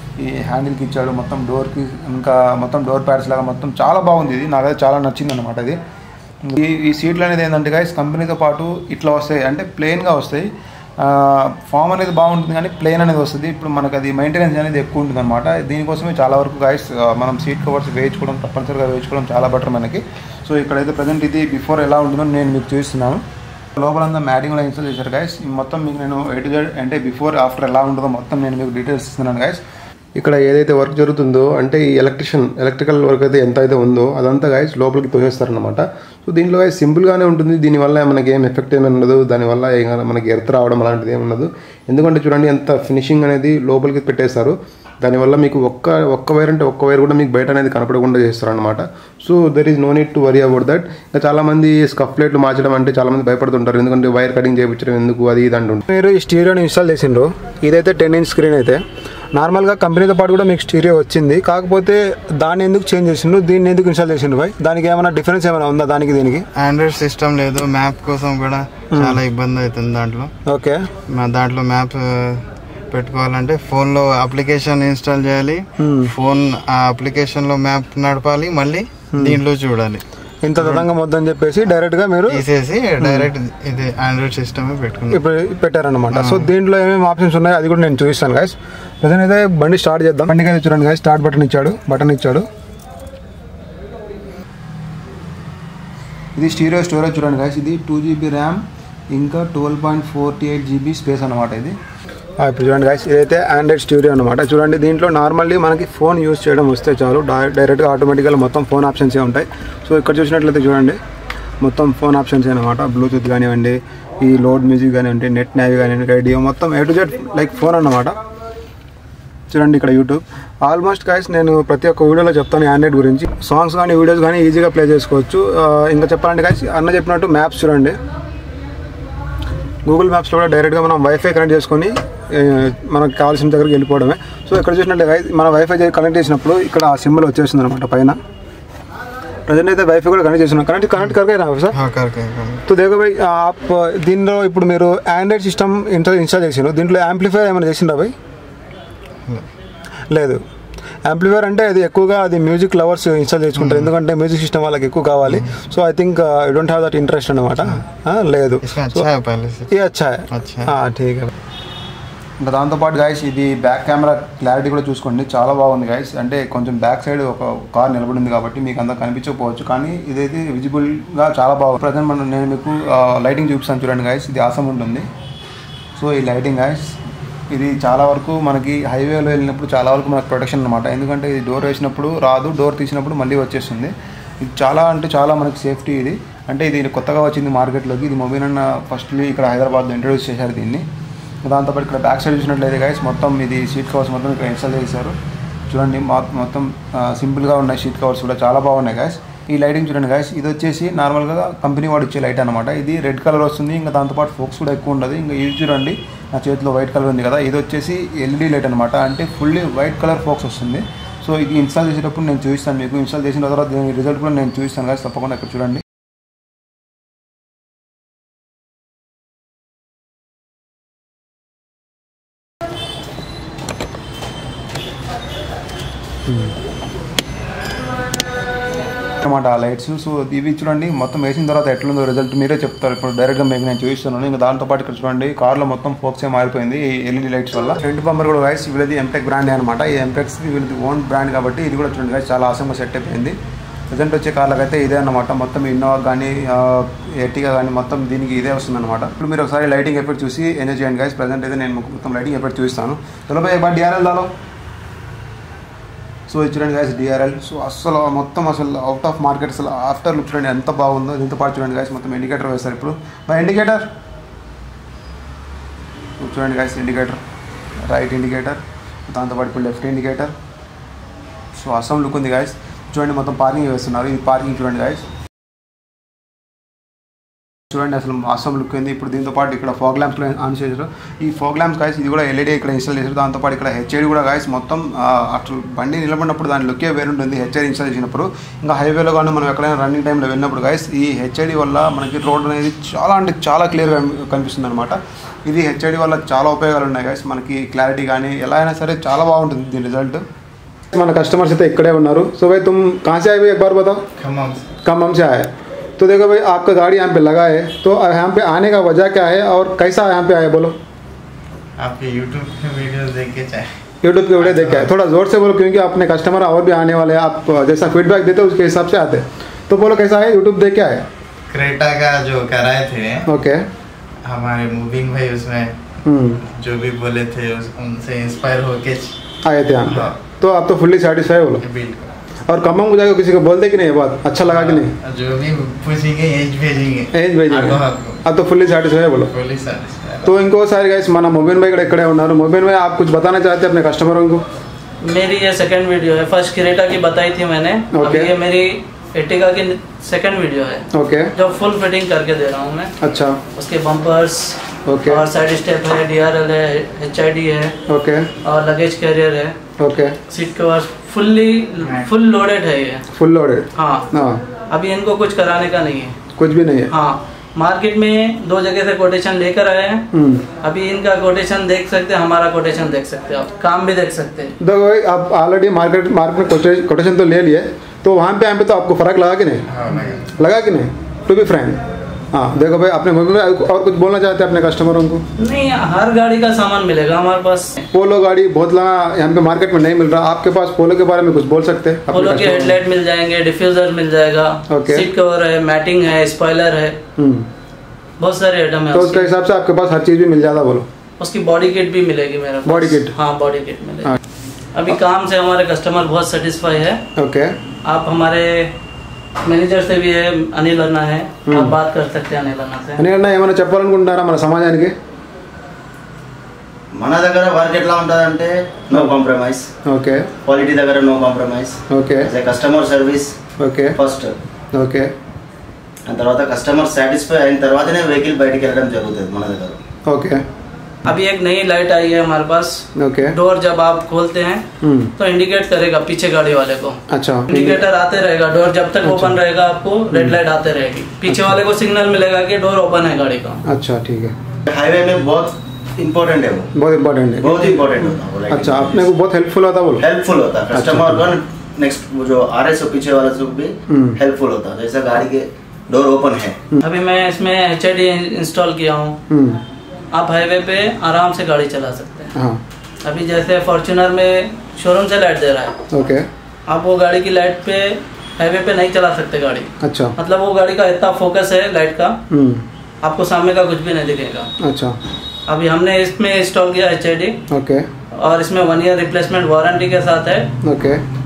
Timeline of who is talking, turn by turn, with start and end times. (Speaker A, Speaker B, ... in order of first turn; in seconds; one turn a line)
Speaker A: 0.2-5.8
Speaker A: 6.4-10.5
Speaker A: 11.0-23.2
Speaker A: 23.8-29.6
Speaker B: 30.2-55.8
Speaker A: 55.9-58.8
Speaker A: 59.3-66.5
Speaker C: 66.5-70.3
Speaker A: 68.9-69.2
Speaker A: 70.5-70.8
Speaker C: 71.1-80.9
Speaker A: 75.8-76.1
Speaker A: 80.4-82.4
Speaker C: 82.3-85.2
Speaker A: 83.0-83.3
Speaker A: 85.1-92.5
Speaker C: 86.1-86.5
Speaker A: 96.4-101.8
Speaker A: 102.4-111.0
Speaker A: 111.6-118.2
Speaker A: 119.5-128.0
Speaker A: 129.8-138.2
Speaker A: 139.5-141.8
Speaker C: 141.7-142.7
Speaker A: 142.7-148.2
Speaker A: 150.1-150.4
Speaker A: 151.1-159.1
Speaker C: 153.6-153.9
Speaker C: 155.3-155.6
Speaker C: 158.6-160.7
Speaker A: 159.7-161.3
Speaker A: 162.4-175.1
Speaker A: 176.0-176.9
Speaker A: 177.5-190.9
Speaker A: 191.4-195.2
Speaker A: 195.7-215.8
Speaker A: 229.2-243.4
Speaker A: 243.9-254.3
Speaker A: 256.3-263.9
Speaker A: 266.2-267.2
Speaker A: 267.9-270.3
Speaker A: 271.5-275.1
Speaker A: 277.7-300.2
Speaker A: 300.9-304.0
Speaker C: 304.2-304.7
Speaker A: 304.8-310.8
Speaker C: 311.8-313.8
Speaker A: 314.0-321.1
Speaker C: 314.4-314.9
Speaker C: 321.5-323.3
Speaker A: 323.3-323.6
Speaker C: 324.2-325.8
Speaker A: 326.1-326.4
Speaker C: 326.4-329.2
Speaker A: 329.4-331.6
Speaker C: 329.9-330.2
Speaker C: 331.6-332.1
Speaker A: 332.5-334.9
Speaker C: 334.4-338.2
Speaker A: 337.1-339.3
Speaker C: 339.1-340.4
Speaker A: 340.2-344.4
Speaker D: 345.0-352.9
Speaker A: 347.9-348.3
Speaker A: 350.9-351.3
Speaker A: 353.0-353.4
Speaker D: 353.5-357.7
Speaker A: 354.9-355.2
Speaker A: 357.9-358.3
Speaker D: 358.4-359.6
Speaker A: 359.8-360.2
Speaker D: 360.3-363.1
Speaker A: 363.1-364.4
Speaker D: 363.8-364.1
Speaker D: 364.7-366.1
Speaker A: 366.4-366.9
Speaker D: 366.9-370.1
Speaker A: 370.1-370.4
Speaker D: 370.6-374.6
Speaker A: 374.6-379.7
Speaker C: 379.7-380.3
Speaker A: 380.4-381.8
Speaker A: 382.3-385.2
Speaker D: 385.4-387.8
Speaker A: 387.9-392.8
Speaker D: 392.1-397.0
Speaker A: 394.7-395.1
Speaker A: 397.2-397.5
Speaker D: 398.2-399.3
Speaker A: 398.9-400.9
Speaker D: 401.2-404.2
Speaker A: 402.7-403.1
Speaker D: 404.8-407.0
Speaker A: 407.2-407.5
Speaker D: 407.9-408.7
Speaker D: 409.4-413.0
Speaker A: 411.5-411.8
Speaker A: 413.0-414.9
Speaker E: 416.9-419.7
Speaker A: 419.9-420.3
Speaker E: 420.4-423.4
Speaker A: 421.9-422.3
Speaker A: 423.6-424.0
Speaker E: 424.0-424.4
Speaker A: 424.8-425.1
Speaker E: 426.1-429.8
Speaker A: 430.1-430.4
Speaker D: 431.1-434.6
Speaker A: 433.0-433.4
Speaker A: 434.8-435.1
Speaker D: 435.2-443.6
Speaker A: 437.1-437.8
Speaker A: 439.0-439.4
Speaker A: 440.1-440.4
Speaker A: 441.3-441.6
Speaker A: 443.7-444.4
Speaker E: 444.6-446.7
Speaker A: 446.8-450.1
Speaker E: 447.4-449.1
Speaker E: 450.0-456.6
Speaker A: 450.7-451.3
Speaker A: 453.9-454.2
Speaker D: 456.8-459.2
Speaker A: 459.3-459.6
Speaker D: 460.1-462.3
Speaker D: 463.0-465.8
Speaker A: 465.9-466.3
Speaker D: 466.7-472.2
Speaker A: 469.8-470.1
Speaker A: 472.3-472.6
Speaker D: 473.0-474.5
Speaker A: 474.6-474.9
Speaker D: 475.5-477.4
Speaker A: 477.5-477.9
Speaker D: 478.2-480.5
Speaker A: 480.6-481.0